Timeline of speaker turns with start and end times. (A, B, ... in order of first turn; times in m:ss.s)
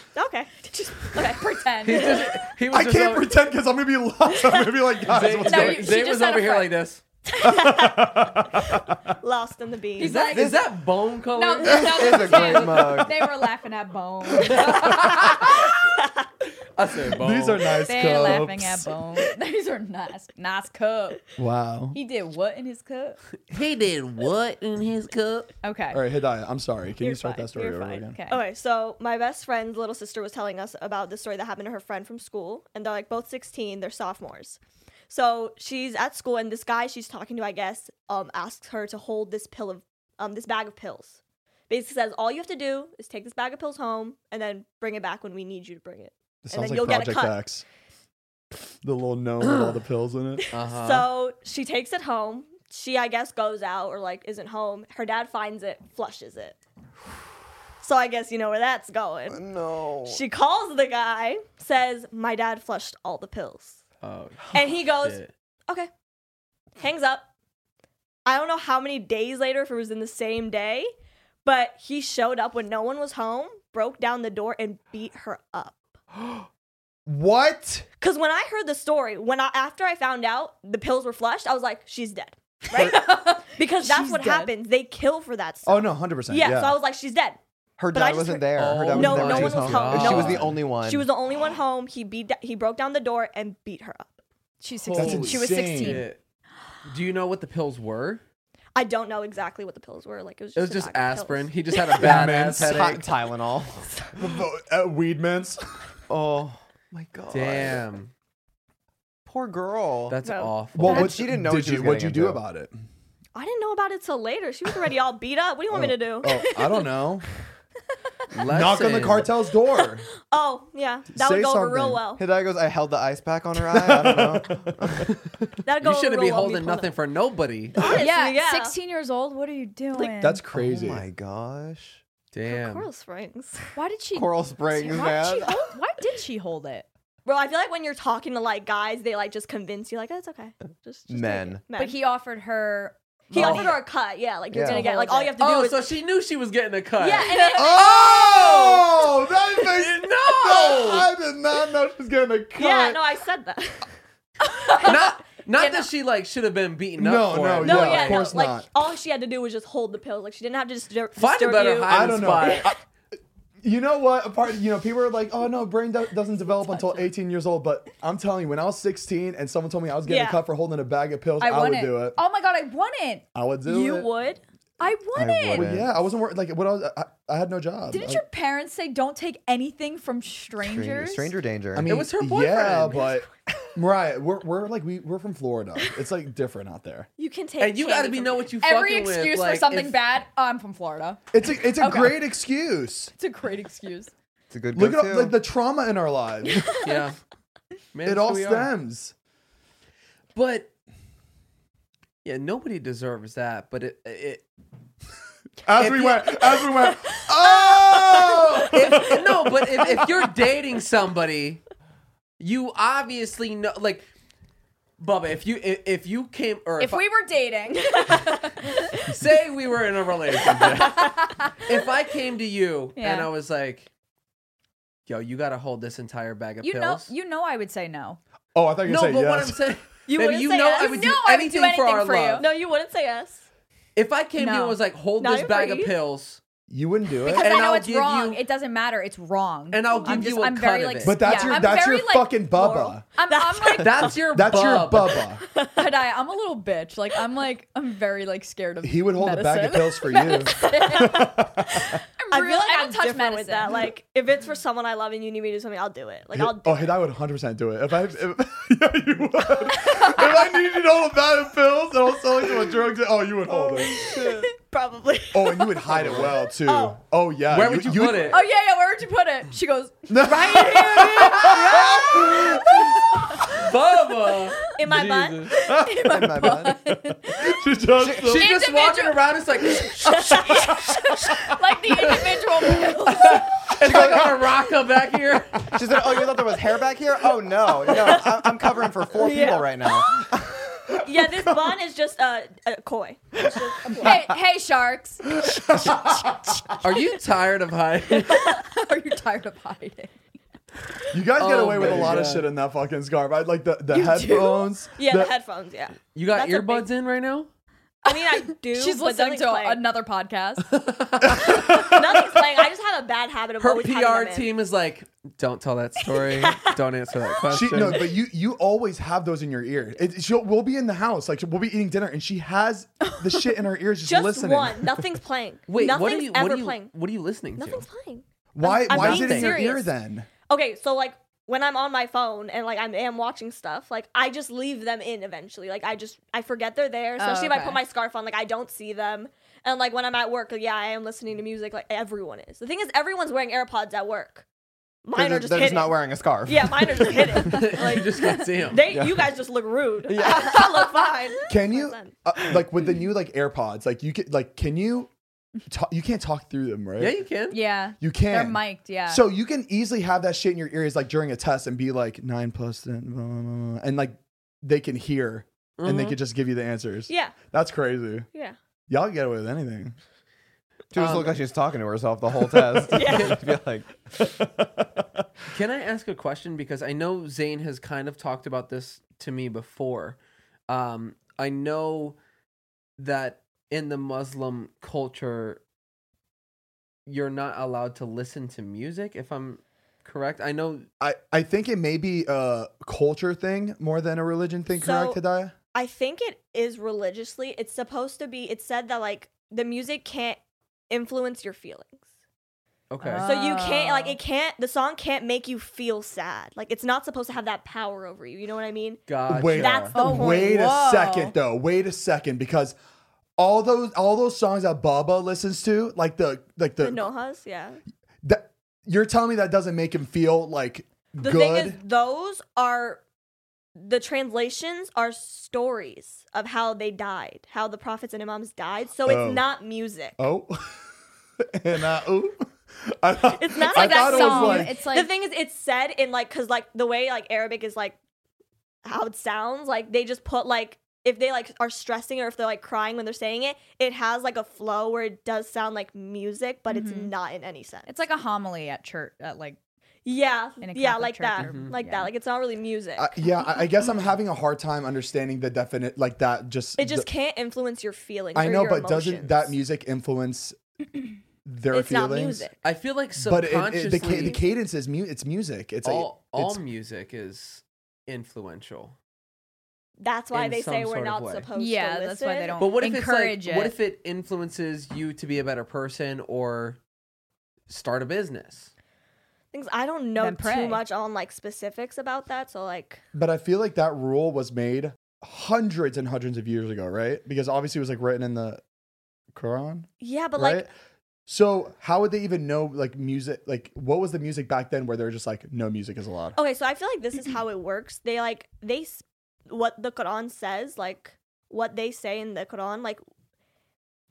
0:00.1-0:02.4 A
0:01.2-0:02.3 B
0:01.8-0:03.4 C
0:02.7-0:05.9 D
0:05.0-0:07.0 C
0:05.4-0:06.7 B
0:07.2-0:08.4 A
0:07.4-0:09.1 D
0:09.1-0:10.3 A
0:10.0-0:10.6 B
0:10.0-0:13.0 C
0:10.3-0:10.7 E
0:11.3-0:15.7 B
0:11.6-0:13.4 E
0:14.4-0:15.6 C
0:16.7-0:17.8 C
0:17.1-0:18.9 D
0:17.8-0:21.2 B
0:21.4-0:22.0 D
0:21.9-0:23.2 B
0:23.5-0:25.5 C
0:25.6-0:26.0 B
0:25.9-0:28.2 D
0:27.0-0:47.4 A
0:28.1-0:28.4 B
0:46.4-0:47.6 D
0:48.8-0:50.5 D
0:50.5-0:56.6 A
0:50.5-0:51.1 C
0:57.8-0:59.4 A
0:59.3-1:00.2 E
1:00.0-1:03.8 A
1:04.0-1:05.3 C
1:04.5-1:05.9 A
1:06.8-1:07.3 A
1:08.2-1:10.9 A
1:11.4-1:15.8 A
1:17.0-1:17.9 D
1:18.0-1:27.4 A
1:22.7-1:24.5 B
1:25.6-1:26.8 D
1:27.8-1:31.1 E
1:27.9-1:34.2 A
1:28.6-1:30.6 C
1:30.0-1:30.4 D
1:34.6-1:36.1 B
1:34.9-1:36.2 C
1:34.9-1:36.1 D
1:36.8-1:38.2 C
1:38.7-1:42.3 A
1:40.5-1:43.1 C
1:42.0-1:42.8 D
1:42.2-1:43.9 E
1:44.2-1:45.8 D
1:46.1-1:47.8 E
1:47.3-1:48.1 C
1:49.2-1:50.2 E
1:50.1-1:51.1 C
1:50.2-1:51.1 A
1:50.7-1:52.7 D
1:50.8-1:52.4 E
1:53.3-1:56.6 A
1:55.7-1:57.2 D
1:58.3-1:59.3 C
1:58.4-2:00.1 D
1:59.8-2:02.2 A
2:01.1-2:02.0 D
2:02.2-2:05.0 E
2:03.6-2:05.1 D
2:05.6-2:06.9 A
2:05.8-2:07.8 C
2:07.8-2:08.8 A
2:08.0-2:10.4 B
2:10.0-2:11.0 D
2:10.5-2:12.0 E
2:12.3-2:12.9 C
2:12.4-2:13.7 A
2:13.7-2:16.9 B
2:14.1-2:15.6 E
2:17.2-2:22.0 A
2:21.1-2:21.6 E
2:21.7-2:23.8 B
2:23.3-2:25.9 A
2:24.5-2:24.8 E
2:24.6-2:25.4 B
2:25.4-2:28.9 C
2:27.0-2:29.1 A
2:27.5-2:33.0 D
2:29.6-2:31.1 C
2:32.6-2:33.9 A
2:34.5-2:35.0 B
2:34.8-2:38.3 C
2:35.6-2:35.8 B
2:37.0-2:38.7 D
2:37.6-2:42.7 A
2:41.2-2:42.7 C
2:41.8-2:42.8 D
2:43.6-2:52.2 D
2:50.0-2:50.4 A
2:51.4-2:55.7 B
2:53.3-2:54.1 D
2:53.7-2:54.2 A
2:55.1-2:55.9 E
2:55.5-2:58.2 D
2:57.9-3:01.3 B
3:00.6-3:02.0 E
3:01.7-3:07.1 D
3:01.8-3:03.0 C
3:07.2-3:08.5 A
3:07.6-3:10.0 C
3:08.6-3:12.3 B
3:11.3-3:13.1 D
3:13.2-3:14.1 B
3:14.5-3:15.4 E
3:14.7-3:16.9 D
3:16.8-3:17.2 C
3:17.9-3:18.7 C
3:18.0-3:19.1 D
3:20.3-3:20.7 C
3:22.2-3:24.4 C
3:25.6-3:30.1 D
3:25.8-3:26.3 C
3:26.9-3:28.4 A
3:28.6-3:31.6 C
3:32.4-3:34.1 C
3:35.0-3:37.0 C
3:36.8-3:38.7 B
3:37.9-3:38.3 A
3:39.0-3:43.9 C
3:40.8-3:41.6 B
3:43.0-3:43.3 B
3:45.1-3:47.1 C
3:46.6-3:48.2 B
3:48.5-3:49.7 D
3:48.8-3:52.5 C
3:50.1-3:50.9 A
3:50.2-3:52.5 B
3:52.4-3:53.4 A
3:53.9-3:56.4 C
3:54.4-3:54.8 B
3:55.2-3:55.9 A
3:56.7-3:57.6 D
3:57.2-4:02.5 B
3:57.4-3:58.4 C
3:59.7-4:01.3 C
3:59.9-4:00.3 A
4:01.0-4:03.0 D
4:01.3-4:01.6 A
4:02.5-4:04.1 A
4:03.1-4:03.9 B
4:03.8-4:05.2 C
4:04.2-4:05.4 D
4:05.5-4:05.8 A
4:05.7-4:11.4 B
4:08.8-4:12.0 D
4:10.6-4:11.3 A
4:12.2-4:13.8 B
4:12.3-4:17.0 A
4:16.3-4:24.2 D
4:19.9-4:20.2 A
4:23.7-4:27.0 A
4:25.3-4:28.4 D
4:27.5-4:28.4 C
4:28.3-4:33.4 B
4:30.1-4:33.6 D
4:31.7-4:32.2 A
4:33.5-4:35.5 C
4:34.7-4:35.5 A
4:35.6-4:36.5 D
4:35.8-4:37.4 B
4:36.0-4:36.9 E
4:37.2-4:38.5 D
4:38.0-4:38.4 E
4:38.1-4:40.4 C
4:38.3-4:39.3 B
4:39.8-4:41.5 D
4:40.1-4:40.6 A
4:40.4-4:43.5 B
4:43.0-4:46.1 C
4:43.8-4:44.4 D
4:45.7-4:50.6 E
4:49.1-4:50.2 A
4:50.9-4:51.8 D
4:50.9-4:54.2 A
4:53.9-4:56.9 B
4:55.3-4:56.8 D
4:56.8-4:58.6 C
4:58.2-5:00.1 B
5:01.1-5:05.3 D
5:01.4-5:02.5 C
5:03.9-5:04.7 B
5:05.0-5:06.9 A
5:06.1-5:07.5 C
5:08.0-5:09.8 A
5:08.1-5:10.7 B
5:10.6-5:11.9 C
5:11.2-5:12.0 D
5:11.5-5:14.5 A
5:13.6-5:18.1 C
5:16.4-5:16.7 A
5:17.5-5:25.0 D
5:24.0-5:26.9 A
5:25.7-5:27.8 C
5:27.6-5:29.9 A
5:28.5-5:30.3 D
5:28.9-5:29.6 C
5:30.5-5:44.4 A
5:37.2-5:37.8 B
5:45.0-5:52.2 A
5:45.1-5:47.4 E
5:47.4-5:48.8 C
5:47.8-5:48.4 B
5:48.8-5:49.3 E
5:50.0-5:50.7 E
5:51.5-5:55.1 D
5:55.7-5:57.2 D
5:57.0-5:57.6 C
5:57.5-5:59.3 B
5:58.0-6:08.2 D
6:05.8-6:06.2 C
6:07.1-6:07.4 A
6:08.9-6:10.0 D
6:10.9-6:13.9 E
6:10.9-6:11.4 C
6:12.9-6:13.4 C
6:12.9-6:13.4 A
6:14.2-6:15.2 D
6:15.5-6:20.2 C
6:20.7-6:22.2 C
6:23.0-6:25.6 C
6:27.0-6:30.8 C
6:31.0-6:35.5 D
6:34.8-6:35.2 A
6:35.7-6:40.4 A
6:40.9-6:42.0 A
6:42.9-6:43.3 C
6:43.0-6:44.2 B
6:43.2-6:50.6 A
6:49.1-6:49.9 C
6:49.3-6:52.8 D
6:49.9-6:51.3 B
6:53.4-6:57.1 D
6:56.8-6:57.8 A
6:58.2-7:01.8 D
7:01.2-7:03.0 A
7:03.8-7:10.2 A
7:09.0-7:09.4 D
7:10.2-7:14.8 D
7:13.2-7:18.0 A
7:13.6-7:15.1 B
7:18.8-7:27.9 A
7:26.7-7:27.1 B
7:27.9-7:29.6 B
7:30.0-7:33.2 A
7:30.6-7:32.1 B
7:31.4-7:31.7 C
7:33.0-7:37.1 D
7:36.8-7:39.5 A
7:38.3-7:40.6 D
7:41.4-7:42.5 D
7:41.7-7:42.6 A
7:42.6-7:44.4 C
7:43.2-7:46.6 D
7:44.1-7:44.4 A
7:45.8-7:49.0 C
7:50.0-7:52.6 A
7:50.3-7:51.5 C
7:51.5-7:53.8 B
7:52.6-7:56.8 C
7:57.7-7:58.7 C
7:59.5-8:03.0 A
8:00.2-8:00.8 B
8:03.1-8:08.6 D
8:09.3-8:10.7 D
8:10.0-8:10.6 A
8:11.3-8:16.4 D
8:16.3-8:23.0 A